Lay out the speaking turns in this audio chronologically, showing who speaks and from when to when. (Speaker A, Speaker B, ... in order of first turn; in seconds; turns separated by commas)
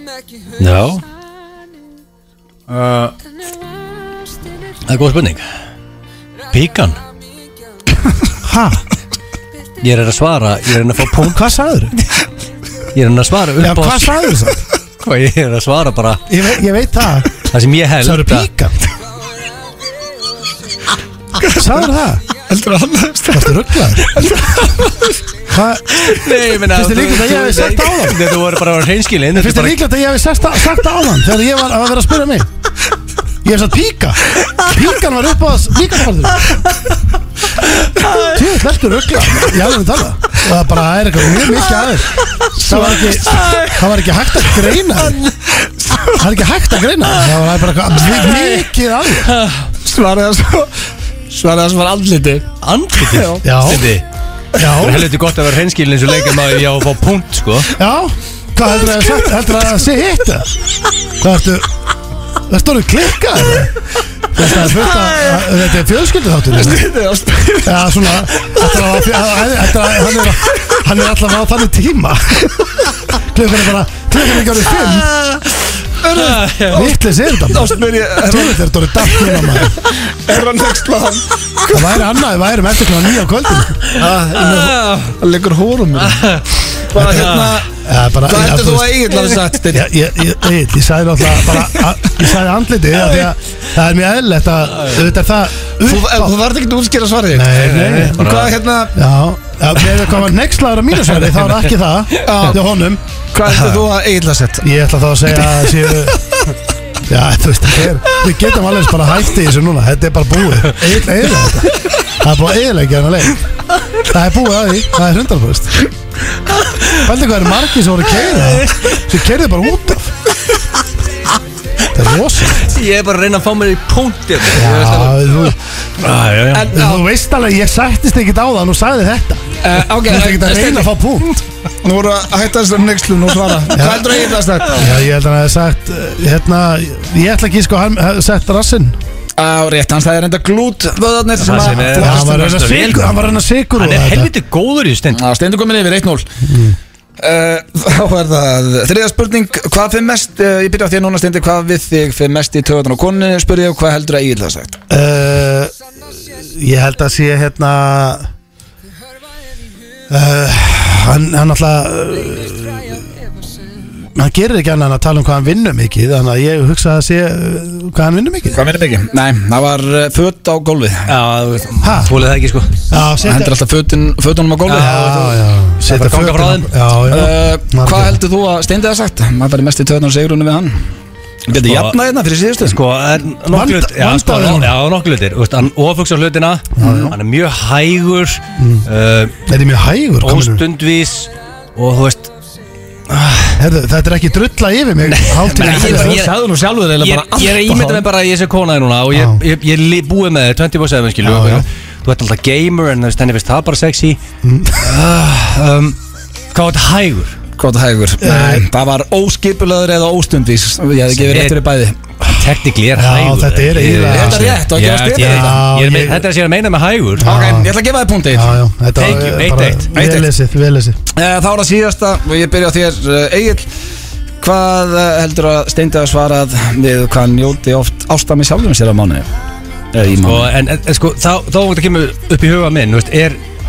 Speaker A: 0.6-1.0, Speaker A: 2.7-3.1, Speaker A: 4.9-5.4, Speaker A: 6.5-7.0, Speaker B: 8.4-8.8, Speaker A: 9.8-11.4, Speaker B: 11.3-11.9, Speaker A: 12.9-14.2, Speaker B: 13.6-14.6, Speaker A: 15.0-16.2, Speaker B: 16.3-17.3, Speaker A: 17.4-18.5, Speaker B: 18.0-18.8, Speaker C: 21.4-21.7, Speaker B: 21.5-22.2, Speaker C: 22.3-25.1, Speaker B: 23.3-24.1, Speaker B: 25.5-26.1, Speaker A: 25.9-29.8, Speaker B: 26.7-28.2, Speaker B: 29.3-32.5, Speaker B: 33.4-36.5, Speaker A: 37.8-38.4, Speaker B: 38.2-45.2, Speaker C: 42.6-43.0, Speaker A: 42.7-43.9, Speaker A: 44.8-45.3, Speaker C: 45.8-46.1, Speaker B: 46.1-49.3, Speaker A: 48.0-48.7, Speaker A: 49.2-49.7, Speaker C: 49.8-50.7, Speaker C: 51.3-52.5, Speaker A: 52.6-54.0, Speaker C: 53.0-53.4, Speaker B: 53.4-53.9, Speaker B: 54.5-55.1, Speaker A: 54.6-57.7, Speaker B: 57.8-60.5, Speaker B: 61.2-61.7, Speaker B: 62.5-63.7, Speaker B: 64.3-66.8, Speaker C: 66.5-67.8, Speaker B: 67.6-72.5, Speaker B: 73.2-75.1, Speaker A: 74.8-75.5, Speaker C: 76.0-76.9, Speaker A: 76.1-76.9, Speaker B: 76.7-79.8, Speaker C: 77.4-78.6, Speaker C: 79.8-81.8, Speaker B: 81.7-83.9, Speaker C: 83.9-86.3, Speaker A: 84.0-85.1, Speaker A: 86.0-87.6, Speaker C: 86.8-87.7, Speaker B: 87.8-89.0, Speaker C: 88.2-89.9, Speaker B: 89.7-96.3, Speaker C: 95.8-97.6, Speaker B: 97.3-98.2, Speaker A: 97.5-98.5, Speaker C: 98.1-98.9, Speaker B: 98.9-103.0, Speaker C: 102.2-102.6, Speaker C: 103.3-104.7, Speaker B: 104.6-106.2, Speaker B: 107.1-113.4, Speaker B: 114.1-115.9, Speaker A: 116.6-117.0, Speaker B: 117.0-120.1, Speaker A: 118.2-119.0, Speaker B: 121.9-122.7, Speaker A: 122.6-126.8, Speaker B: 124.5-125.5, Speaker C: 126.5-127.0, Speaker B: 126.7-131.4, Speaker C: 129.6-130.9, Speaker C: 131.8-134.9, Speaker B: 133.7-139.0, Speaker C: 139.4-142.4, Speaker A: 141.4-143.2, Speaker B: 141.9-144.3, Speaker A: 143.8-145.2, Speaker C: 145.1-146.4, Speaker B: 146.4-146.8, Speaker C: 147.2-154.8, Speaker B: 154.9-155.7, Speaker B: 156.4-158.3, Speaker B: 160.1-163.0, Speaker B: 164.0-168.6, Speaker C: 168.5-171.1, Speaker A: 171.1-172.8, Speaker B: 171.8-172.2, Speaker B: 172.9-173.5, Speaker C: 173.2-175.2, Speaker A: 174.7-176.7, Speaker B: 174.7-178.2, Speaker C: 177.1-180.8, Speaker C: 181.5-182.8, Speaker A: 181.5-181.9, Speaker A: 182.6-189.4, Speaker B: 183.5-184.7, Speaker B: 186.8-187.2, Speaker B: 188.6-188.9, Speaker B: 189.4-190.6, Speaker A: 190.2-192.3, Speaker A: 193.1-193.5, Speaker B: 193.6-196.2, Speaker A: 195.1-196.3, Speaker C: 195.5-198.0, Speaker A: 197.0-204.2, Speaker B: 199.1-199.4, Speaker B: 201.2-201.6, Speaker B: 204.4-204.9, Speaker A: 204.7-206.0, Speaker A: 206.5-207.4, Speaker C: 207.6-212.0, Speaker B: 208.2-208.7, Speaker A: 211.3-211.6, Speaker A: 212.2-217.3, Speaker B: 212.9-214.5, Speaker C: 214.1-215.6, Speaker B: 215.2-216.3, Speaker B: 217.2-217.7, Speaker C: 217.2-219.2, Speaker B: 218.3-221.0, Speaker A: 219.0-219.9, Speaker C: 219.9-220.3, Speaker C: 221.1-223.7, Speaker C: 224.4-229.3, Speaker C: 229.9-230.5, Speaker A: 230.1-233.4